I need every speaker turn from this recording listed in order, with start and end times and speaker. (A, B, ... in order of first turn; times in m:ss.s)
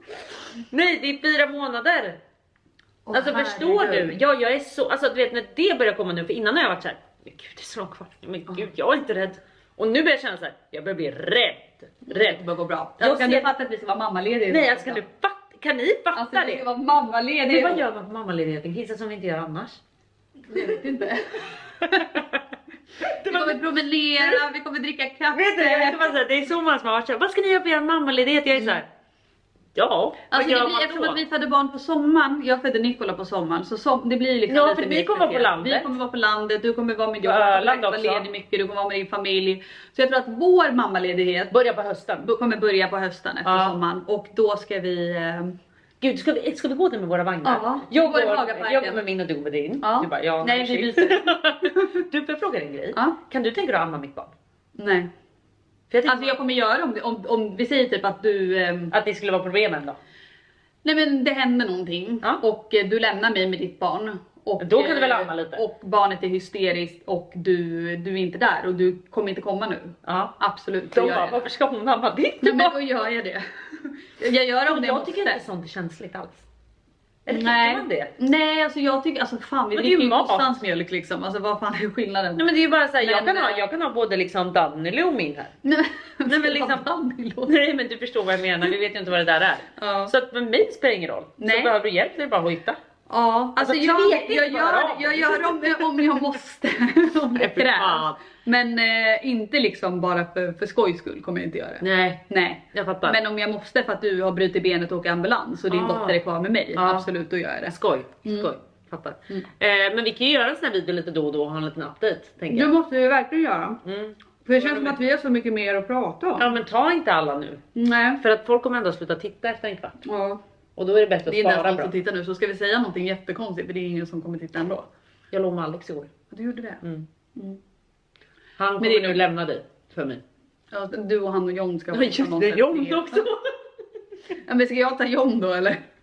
0:00.6-0:02.2 A
0:03.1-0:04.2 B
0:03.1-0:12.4 A
0:12.1-0:15.0 B
0:13.0-0:13.5 A
0:14.5-0:16.6 A
0:16.1-0:17.8 B
0:17.5-0:19.8 A
0:20.5-0:22.2 B
0:21.8-0:22.4 A
0:23.0-0:24.4 A
0:23.0-0:26.1 B
0:25.3-0:28.9 A
0:29.8-0:31.2 A
0:30.3-0:41.5 B
0:34.5-0:35.9 A
0:37.2-0:38.2 A
0:41.5-0:42.3 A
0:42.2-0:45.6 B
0:43.4-0:43.8 A
0:46.0-0:54.4 A
0:47.4-0:49.0 B
0:49.8-0:52.0 B
0:54.8-0:55.1 B
0:55.9-0:56.4 A
0:56.0-0:58.9 B
0:58.9-1:00.0 A
1:00.8-1:11.4 B
1:04.6-1:05.6 A
1:10.0-1:10.3 A
1:10.9-1:12.8 A
1:12.4-1:15.4 B
1:14.7-1:16.5 A
1:17.2-1:18.1 A
1:17.3-1:23.7 B
1:19.8-1:20.6 A
1:22.4-1:25.5 A
1:25.6-1:27.5 B
1:26.3-1:26.9 A
1:27.4-1:32.8 A
1:29.8-1:30.1 B
1:31.4-1:31.7 B
1:33.1-1:48.5 B
1:33.6-1:36.2 A
1:37.4-1:38.2 A
1:41.8-1:42.2 A
1:42.7-1:43.2 A
1:45.7-1:46.2 A
1:46.8-1:47.1 A
1:47.7-1:52.7 A
1:52.5-1:53.8 B
1:53.8-1:55.0 A
1:54.4-1:56.5 B
1:56.4-1:57.6 A
1:57.8-1:58.2 B
1:58.2-2:00.0 A
2:00.0-2:00.4 B
2:00.8-2:01.9 A
2:01.3-2:04.9 B
2:05.3-2:06.1 A
2:06.3-2:06.8 B
2:08.6-2:10.2 A
2:08.8-2:09.2 B
2:10.7-2:13.3 B
2:11.9-2:13.4 A
2:14.4-2:15.8 B